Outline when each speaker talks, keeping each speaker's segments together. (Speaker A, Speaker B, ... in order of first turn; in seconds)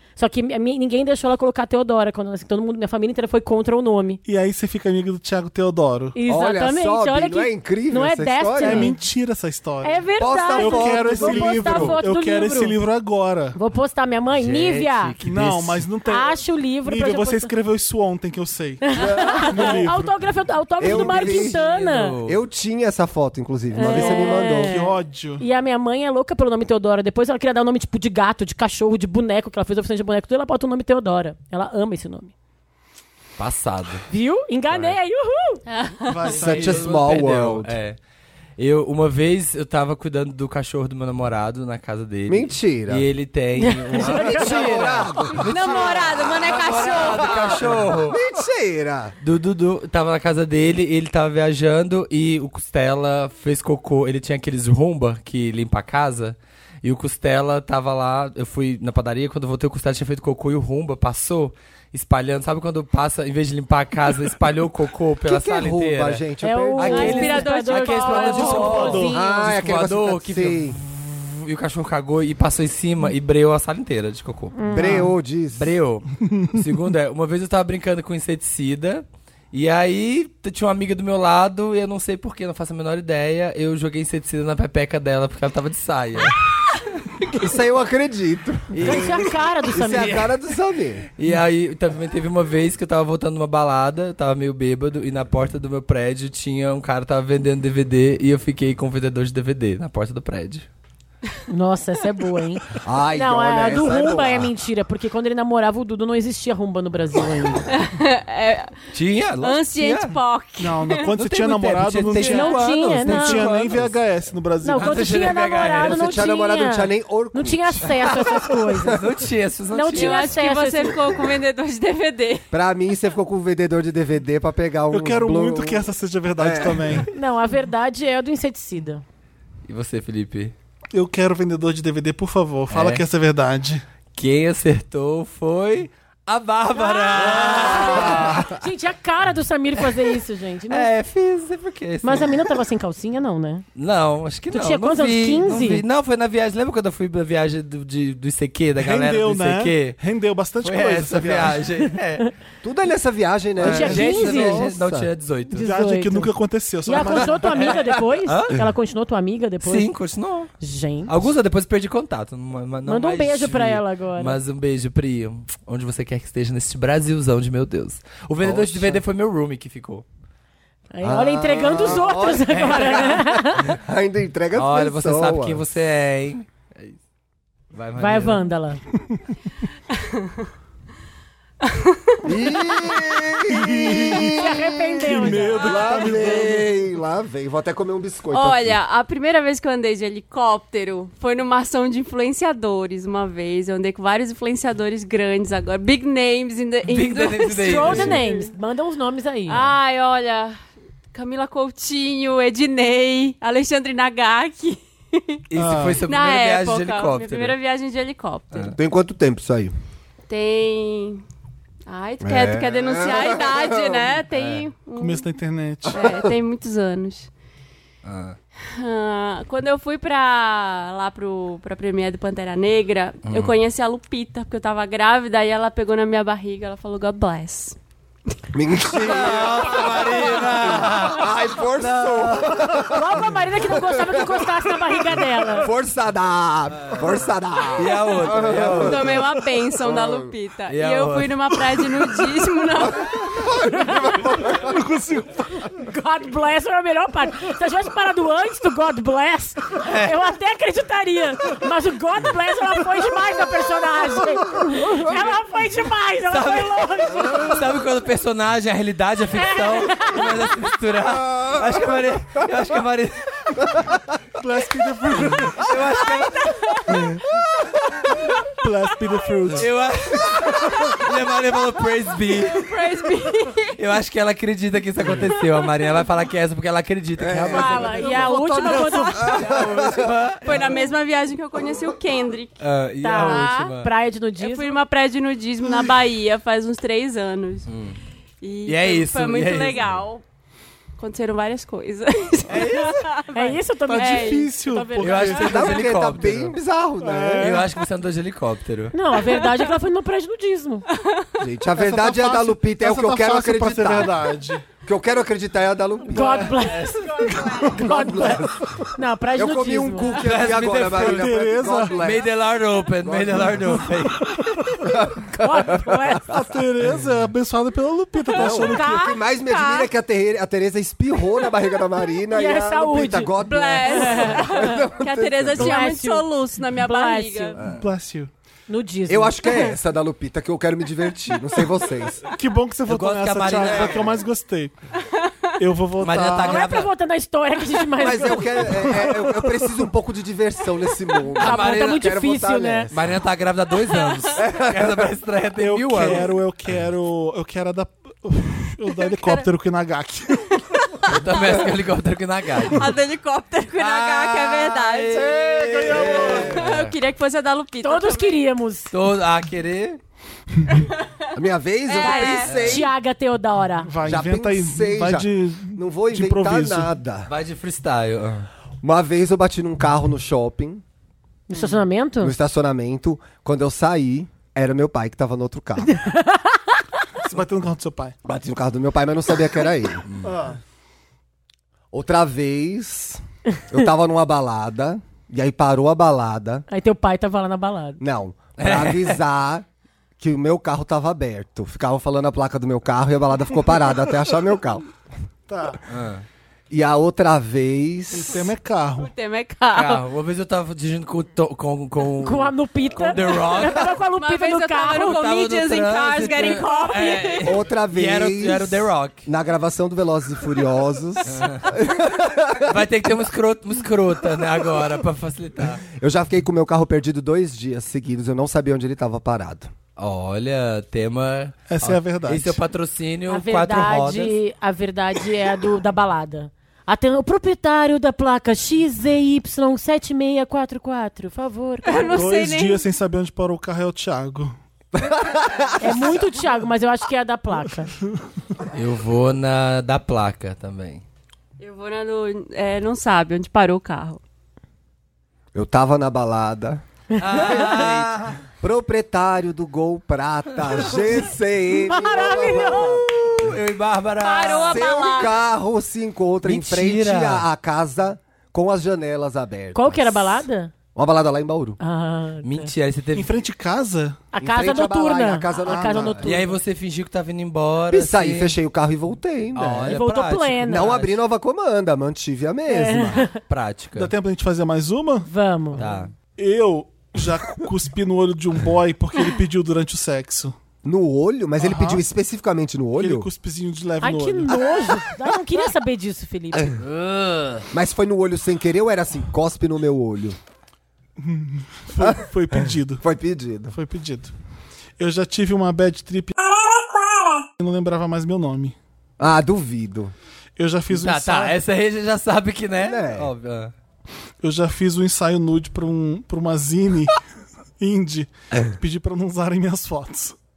Speaker A: 0.2-4.2, 6.1-9.0, 9.8-12.8, 13.6-15.2, 16.1-17.5, 18.9-22.1, 23.7-32.3, 34.1-35.6, 43.6-44.8, 66.4-69.4, 74.5-75.1, 88.8-90.2, 101.5-107.7, 112.2-113.5, 114.6-119.0, 119.7-121.0, 127.1-129.0, 136.8-140.9, 142.0-143.6, 144.5-145.8, 153.6-154.6, 155.5-156.3, 156.8-159.9, 160.6-161.1, 162.9-164.4, 170.9-173.7, 178.0-178.8, 184.2-186.0, 197.6-199.7, 232.9-235.7, 245.9-257.6, 259.3-260.4, 277.5-279.2, 283.0-284.8, 293.3-295.4, 298.9-300.9, 306.1-307.0, 307.6-310.2, 315.4-316.3, 318.4-319.8, 322.3-323.3, 323.9-324.7, 325.6-327.6, 328.7-329.6, 336.4-338.7, 341.4-342.9, 357.8-358.9, 362.0-363.9, 371.5-372.3, 376.0-376.6, 386.7-388.0, 402.2-405.2, 423.3-432.1, 435.8-437.9, 451.8-453.2, 459.7-460.7, 461.8-462.7, 464.3-466.5, 469.9-470.9, 472.7-473.3, 475.3-475.8, 484.0-486.7
Speaker B: 4.2-6.2, 8.6-13.6, 15.2-20.3, 23.8-25.4, 36.1-36.9, 67.9-69.2, 110.6-115.1, 124.9-127.1, 130.9-133.8, 138.0-138.4, 148.8-151.6, 153.6-154.1, 155.5-157.8, 183.5-184.4, 185.0-186.7, 205.6-206.0, 214.9-216.1, 244.1-245.7, 264.4-265.7, 266.9-267.2, 268.6-269.7, 278.3-278.8, 293.9-295.9, 297.0-297.7, 301.8-304.6, 306.2-306.5, 307.2-308.3, 310.9-312.0, 314.2-315.0, 316.3-319.0, 327.7-328.3, 332.4-334.7, 335.6-336.6, 338.7-339.9, 345.6-350.6, 355.5-356.6, 363.8-366.9, 377.2-378.1, 380.2-380.6, 395.5-395.8, 398.1-399.1, 421.7-422.6, 432.0-434.6, 463.1-464.2, 465.6-466.3, 473.9-480.6, 481.6-482.0, 483.0-484.6, 491.2-493.0, 493.7-494.3, 495.0-496.3, 497.6-498.8, 500.6-501.6, 504.4-507.2, 507.8-510.4
Speaker C: 6.3-8.9, 10.2-12.0, 18.9-19.8, 20.8-21.6, 22.2-24.7, 36.3-37.8, 42.3-43.1, 43.9-49.1, 65.2-67.3, 69.1-70.8, 74.7-75.7, 87.4-91.1, 102.8-104.5, 115.8-119.0, 122.5-127.1, 152.6-155.1, 168.4-169.0, 171.0-175.6, 182.2-188.8, 208.7-209.7, 212.2-214.2, 228.5-239.2, 239.8-240.3, 243.3-244.8, 261.2-261.7, 277.2-278.3, 279.1-280.1, 295.4-297.6, 301.4-304.2, 304.8-306.6, 307.7-308.6, 309.3-312.3, 313.0-313.8, 314.8-316.1, 318.3-325.8, 329.1-332.2, 333.4-334.2, 338.0-343.1, 344.4-345.1, 355.2-356.7, 361.3-362.9, 364.0-367.3, 368.8-370.8, 372.2-375.9, 378.2-380.1, 381.9-386.6, 388.0-389.6, 390.2-394.8, 396.7-398.4, 407.4-412.8, 415.9-419.7, 434.9-436.2, 445.5-446.8, 447.3-448.1, 448.6-453.5, 454.7-460.4, 460.9-461.8, 464.4-466.3, 467.9-470.0, 470.6-473.2, 480.8-483.3, 487.7-490.4, 493.0-493.7, 499.2-500.1, 502.8-503.3
Speaker D: 14.3-15.8, 21.2-22.4, 33.4-34.0, 34.7-35.0, 36.3-38.0, 38.6-48.2, 49.2-66.2, 66.8-74.9, 75.5-86.4, 88.7-89.3, 89.9-90.3, 91.2-100.7, 108.9-110.1, 111.2-114.0, 114.7-116.1, 118.9-120.4, 129.7-130.5, 132.7-133.0, 134.1-138.5, 140.7-142.4, 143.8-150.0, 150.6-152.3, 153.7-155.6, 157.5-158.6, 159.6-160.5, 161.1-170.1, 172.5-173.3, 174.5-177.0, 177.7-178.4, 196.9-198.2, 205.5-207.6, 214.3-214.7, 218.1-218.4, 223.3-223.6, 229.0-232.8, 236.8-237.1, 237.7-239.2, 240.7-241.6, 249.8-250.1, 256.3-263.2, 265.5-266.6, 269.5-272.6, 273.8-280.9, 282.6-283.9, 287.7-288.0, 288.6-290.0, 292.5-293.1, 295.0-296.6, 297.4-298.9, 306.5-307.1, 310.2-311.3, 311.9-314.3, 332.9-334.0, 336.0-336.9, 341.4-342.1, 342.9-346.3, 351.1-352.9, 353.8-356.9, 358.9-360.0, 362.4-362.8, 367.3-368.5, 380.1-380.3, 388.6-389.2, 395.9-396.2, 399.7-403.9, 405.0-409.2, 411.3-411.7, 412.6-415.8, 420.0-424.4, 438.7-441.0, 447.2-448.4, 453.3-455.0, 456.4-457.4, 462.4-463.3, 466.2-468.6, 469.6-471.2, 473.5-474.1, 475.8-476.1, 486.8-487.6, 500.9-503.7
Speaker E: 35.7-36.3, 45.4-47.6, 66.8-68.9, 107.7-108.7, 109.4-111.1, 119.9-122.4, 188.3-198.5, 199.5-200.6, 201.1-205.4, 206.1-208.7, 210.3-211.2, 211.9-215.3, 215.9-217.3, 218.8-227.8, 238.8-243.2, 266.4-266.9, 272.4-273.7, 278.3-279.4, 280.4-282.6, 283.2-283.7, 284.4-287.7, 288.4-290.2, 291.0-294.5, 323.4-327.6, 335.2-335.5, 343.9-344.3, 352.7-355.4, 355.9-358.4, 361.9-362.6, 399.0-400.0, 404.1-407.6, 431.8-432.8, 441.6-444.2, 454.2-455.4